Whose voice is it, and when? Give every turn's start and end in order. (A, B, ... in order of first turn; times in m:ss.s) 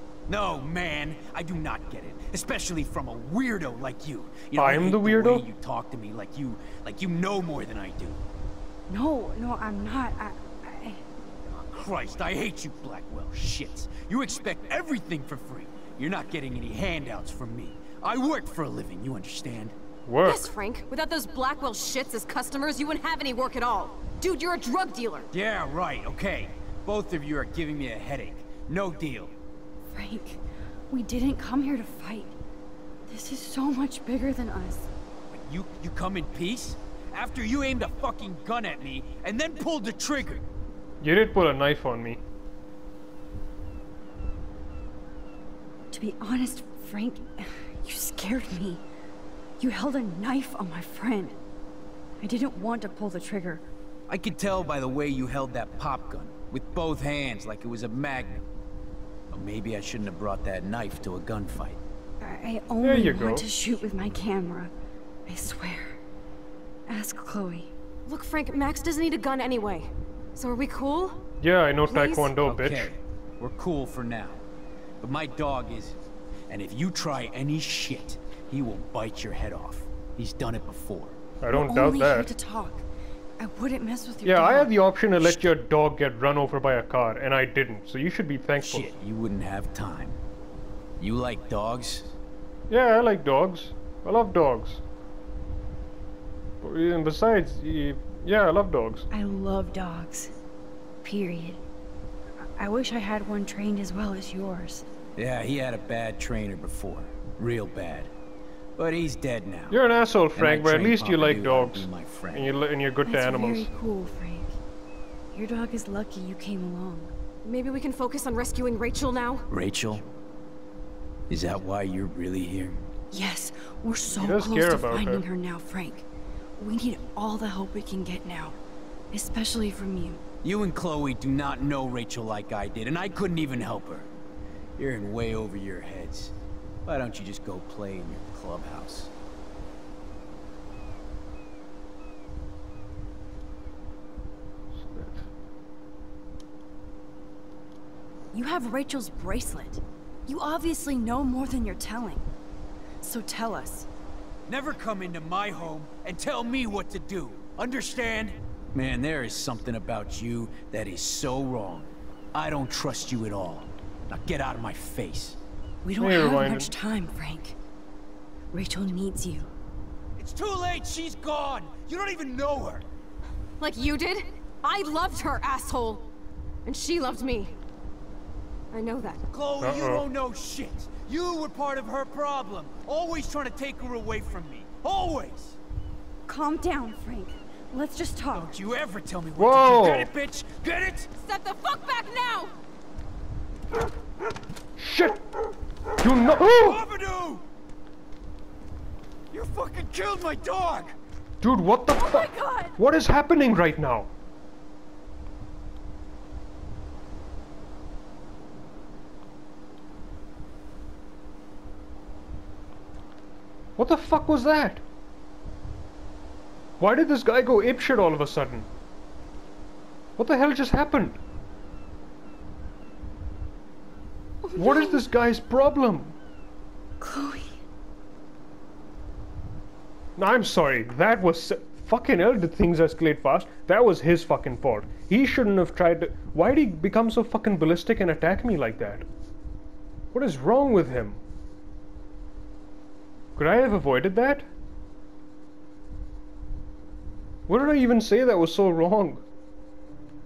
0:00.3-0:08.2 A
0:04.6-0:05.4 B
0:08.9-0:11.0 C
0:11.6-0:19.8 A
0:20.0-0:20.5 B
0:20.2-0:25.3 D
0:25.3-0:29.3 A
0:29.9-0:32.4 C
0:33.1-0:34.9 C
0:35.3-0:40.4 A
0:41.0-0:42.2 B
0:45.9-0:48.8 C
0:49.6-0:51.4 C
0:52.2-0:53.6 C
0:54.1-0:58.4 A
0:59.3-1:01.8 A
1:02.2-1:04.7 C
1:02.8-1:03.5 B
1:05.3-1:06.0 C
1:06.9-1:07.7 C
1:08.0-1:11.2 D
1:11.4-1:12.9 B
1:11.8-1:12.3 D
1:12.4-1:14.4 A
1:15.0-1:21.2 A
1:21.4-1:22.3 B
1:21.5-1:22.8 C
1:23.4-1:24.7 C
1:24.2-1:28.9 B
1:28.6-1:30.2 A
1:31.0-1:32.1 A
1:32.7-1:34.8 B
1:36.6-1:39.1 B
1:39.1-1:40.3 C
1:41.0-1:41.6 C
1:42.4-1:44.9 C
1:45.2-1:48.1 A
1:48.8-1:49.8 A
1:49.7-1:53.7 B
1:50.3-1:52.6 A
1:53.0-1:54.6 C
1:55.3-1:57.1 C
1:57.4-1:59.4 D
1:59.5-2:00.0 A
2:01.3-2:02.8 A
2:03.1-2:08.6 C
2:04.1-2:05.2 B
2:09.1-2:10.2 C
2:10.4-2:14.1 A
2:14.8-2:16.3 A
2:16.8-2:19.1 A
2:24.7-2:25.3 B
2:28.3-2:32.3 C
2:33.0-2:33.9 C
2:34.5-2:45.4 A
2:45.8-2:47.6 C
2:46.0-2:46.7 B
2:48.5-2:49.5 C
2:50.2-2:52.8 A
2:53.6-2:56.1 D
2:56.6-2:57.5 D
2:58.7-2:59.2 D
2:59.3-3:05.6 A
2:59.6-3:00.0 B
3:06.2-3:08.5 C
3:08.3-3:11.1 A
3:09.4-3:10.1 B
3:11.2-3:12.5 D
3:14.8-3:15.2 B
3:16.0-3:16.8 B
3:16.3-3:17.4 A
3:19.3-3:21.0 A
3:21.4-3:24.1 B
3:21.9-3:22.8 C
3:33.8-3:34.8 B
3:36.8-3:38.7 B
3:40.2-3:41.2 B
3:44.5-3:46.1 B
3:47.0-3:47.6 C
3:50.2-3:59.0 B
4:00.1-4:01.2 B
4:03.4-4:04.5 B
4:07.5-4:09.2 B